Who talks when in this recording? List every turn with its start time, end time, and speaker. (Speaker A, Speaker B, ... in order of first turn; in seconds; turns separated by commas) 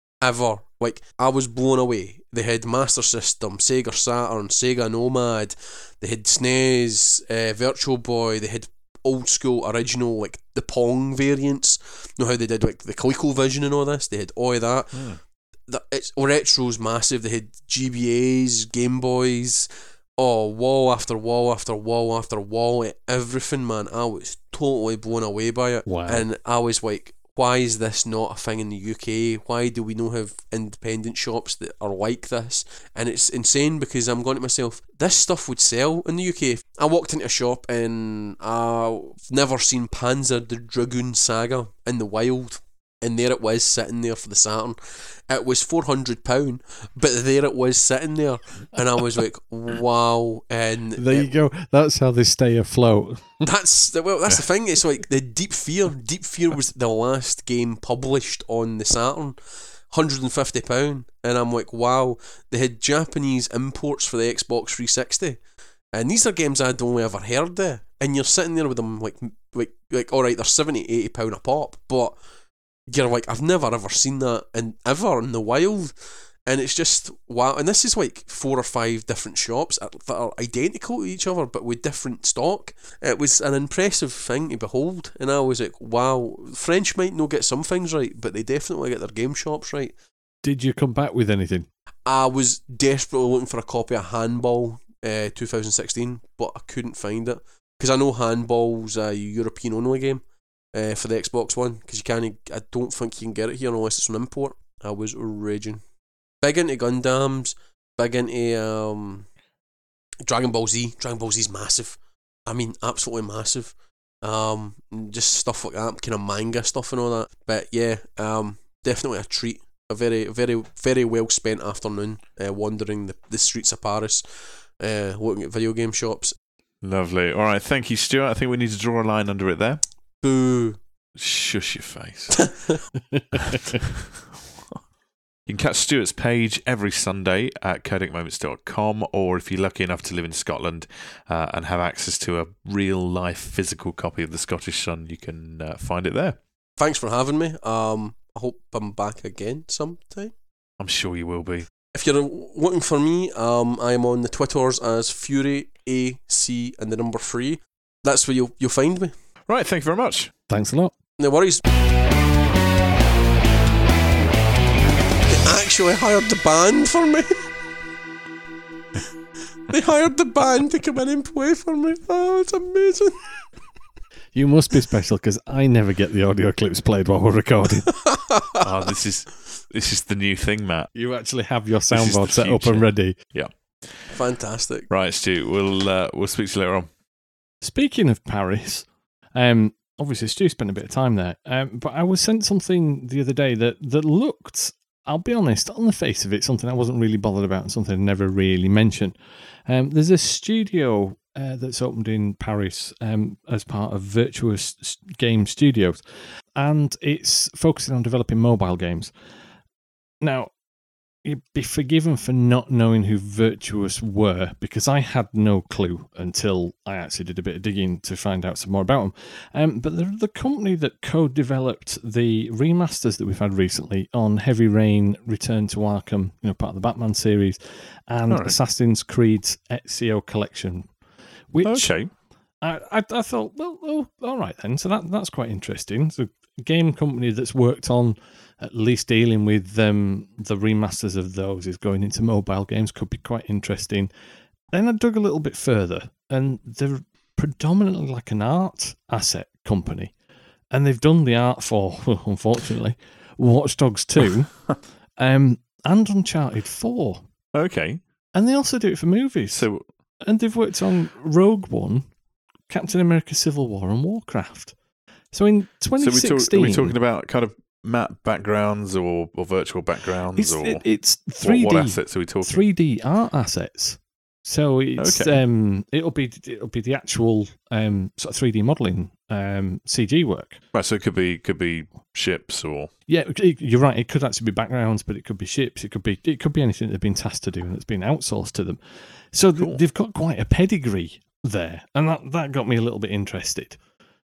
Speaker A: 0.2-15.1, Speaker A: 15.7-51.3, Speaker B: 25.9-26.3, Speaker B: 51.0-53.4, Speaker A: 53.4-59.4, Speaker A: 59.9-65.4, Speaker A: 65.9-72.2, Speaker A: 72.9-75.9, Speaker A: 76.4-89.9, Speaker B: 90.4-91.7, Speaker A: 92.1-105.8, Speaker A: 106.4-109.3, Speaker A: 110.2-124.2, Speaker A: 124.8-126.3, Speaker C: 126.8-129.8, Speaker A: 130.2-130.8, Speaker C: 131.2-132.5, Speaker A: 132.4-132.8, Speaker B: 133.1-133.8, Speaker C: 133.5-134.8, Speaker C: 135.5-146.4, Speaker A: 146.8-150.3, Speaker C: 150.8-151.7, Speaker A: 151.9-159.1, Speaker C: 159.5-160.3, Speaker B: 160.5-160.9, Speaker A: 161.2-161.6, Speaker A: 165.3-167.5, Speaker A: 169.7-173.4, Speaker B: 174.3-178.0, Speaker A: 178.1-178.6, Speaker C: 178.6-180.9, Speaker B: 180.9-183.2, Speaker C: 181.9-184.2, Speaker A: 184.1-184.9, Speaker C: 184.9-186.9, Speaker B: 187.6-209.1, Speaker B: 210.2-210.5, Speaker B: 211.2-230.9, Speaker C: 228.3-228.5, Speaker B: 231.5-231.9, Speaker C: 231.6-232.1, Speaker B: 232.6-244.1, Speaker B: 244.7-250.1, Speaker B: 250.7-254.6, Speaker B: 255.2-257.2, Speaker C: 257.5-258.0, Speaker B: 258.3-259.7, Speaker C: 259.5-259.8, Speaker B: 260.2-262.1, Speaker B: 262.7-264.7, Speaker B: 265.3-266.9, Speaker C: 266.0-270.8, Speaker B: 270.4-280.6, Speaker C: 271.4-272.6, Speaker C: 275.0-275.4, Speaker C: 280.7-282.9, Speaker B: 283.1-293.8